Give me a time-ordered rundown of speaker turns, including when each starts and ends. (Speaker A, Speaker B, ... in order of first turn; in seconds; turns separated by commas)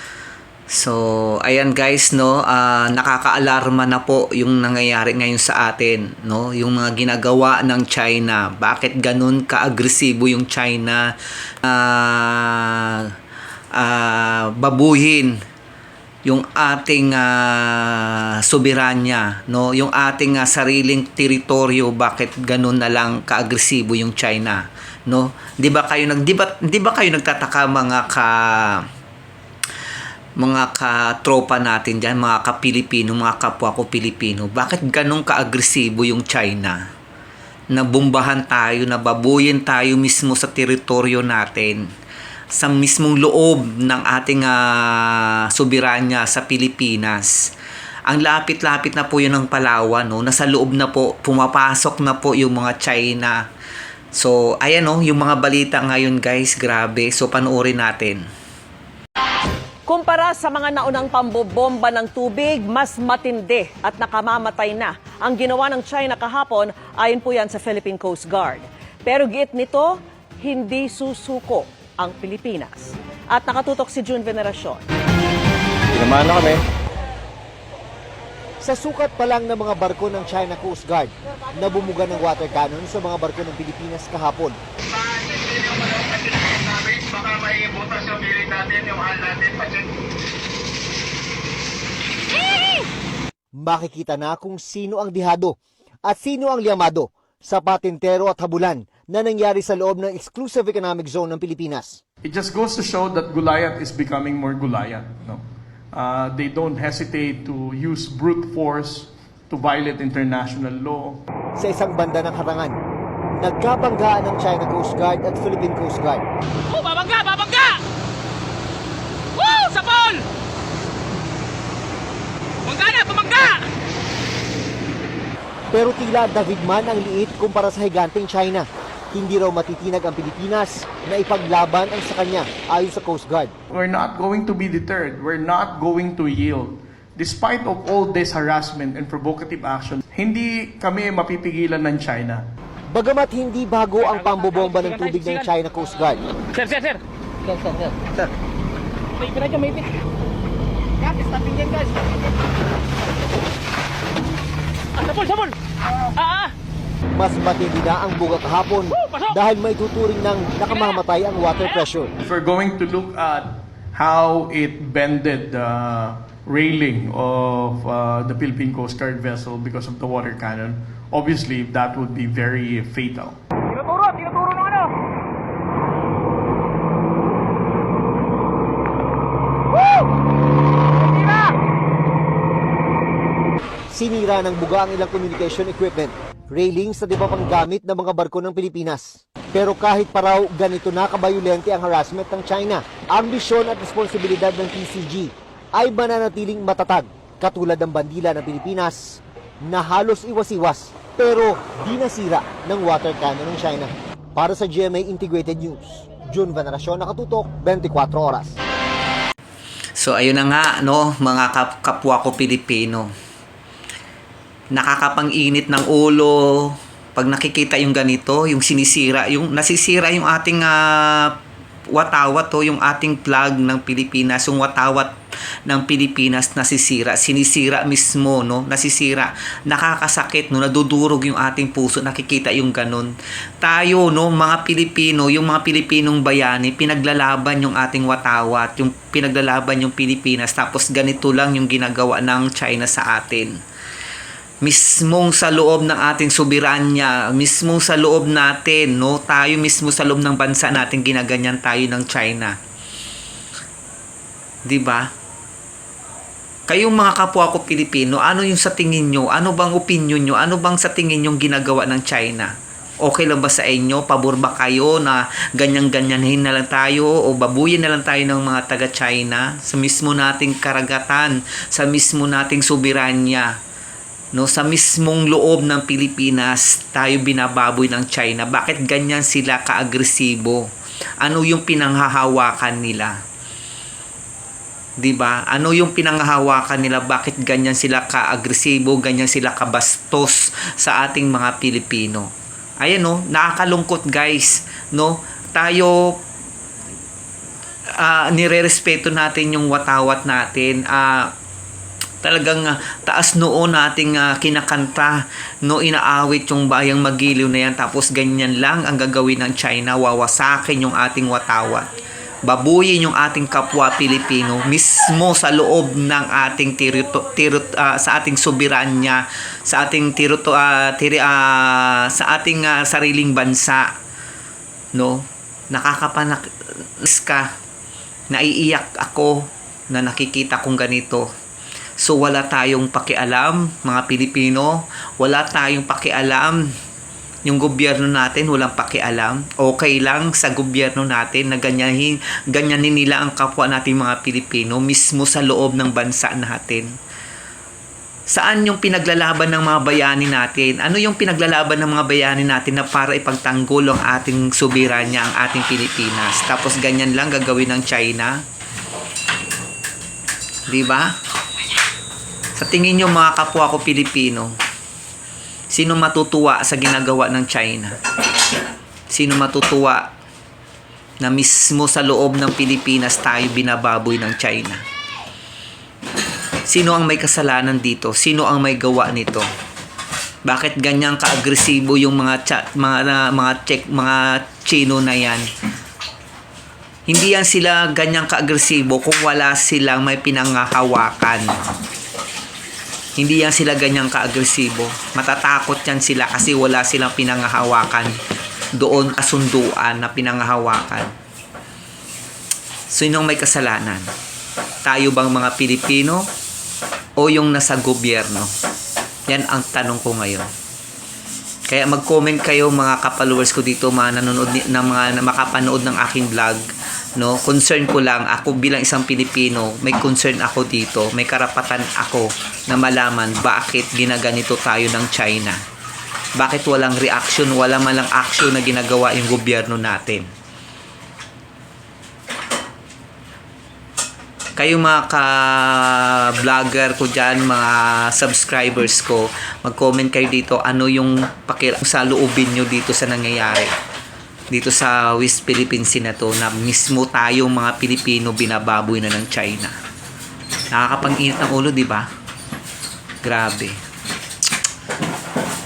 Speaker A: 0.7-11.1, Speaker A: 11.6-13.1, Speaker A: 13.7-15.4, Speaker A: 16.2-28.9, Speaker A: 30.4-36.8, Speaker A: 37.7-41.8, Speaker A: 42.5-47.3, Speaker A: 48.1-53.4, Speaker A: 54.1-58.2, Speaker B: 59.9-74.8, Speaker C: 78.6-84.6, Speaker D: 84.9-89.8, Speaker C: 93.6-102.0, Speaker E: 102.2-111.2, Speaker C: 111.6-112.8, Speaker C: 113.4-116.2, Speaker F: 116.7-117.8, Speaker F: 119.3-120.2, Speaker F: 122.7-123.6, Speaker C: 125.7-133.5, Speaker E: 133.7-142.4, Speaker C: 142.9-146.2, Speaker F: 146.5-147.9, Speaker F: 149.2-149.9, Speaker F: 151.5-151.8, Speaker F: 155.0-155.6, Speaker F: 156.2-156.5, Speaker C: 157.2-162.1, Speaker E: 162.2-173.4, Speaker F: 173.9-174.8, Speaker F: 181.2-181.5, Speaker C: 183.9-208.6, Speaker A: 210.0-213.1, Speaker A: 214.7-221.4, Speaker A: 221.9-225.1, Speaker A: 225.7-243.5, Speaker A: 244.6-252.6, Speaker A: 254.7-255.1, Speaker A: 256.7-273.6, Speaker A: 274.3-280.7, Speaker A: 281.2-283.2, Speaker A: 285.0-296.2, Speaker A: 297.9-301.3, Speaker A: 302.2-311.9, Speaker A: 312.4-323.9, Speaker A: 324.9-326.5, Speaker A: 327.0-327.5, Speaker A: 328.3-331.3, Speaker A: 332.0-336.7, Speaker A: 337.5-346.9, Speaker A: 348.3-358.4, Speaker A: 360.7-361.1, Speaker A: 362.6-364.6, Speaker A: 365.7-368.0, Speaker A: 369.1-370.1, Speaker A: 371.2-374.8, Speaker A: 376.7-379.5, Speaker A: 380.4-385.5, Speaker A: 387.1-391.5, Speaker A: 393.2-398.2, Speaker A: 398.7-401.1, Speaker A: 402.9-404.1, Speaker A: 404.8-406.3, Speaker A: 407.2-408.5, Speaker A: 409.3-410.5, Speaker A: 411.7-425.6, Speaker A: 426.4-430.3, Speaker A: 434.6-443.7, Speaker A: 444.5-449.8, Speaker A: 450.7-452.1, Speaker A: 453.2-453.8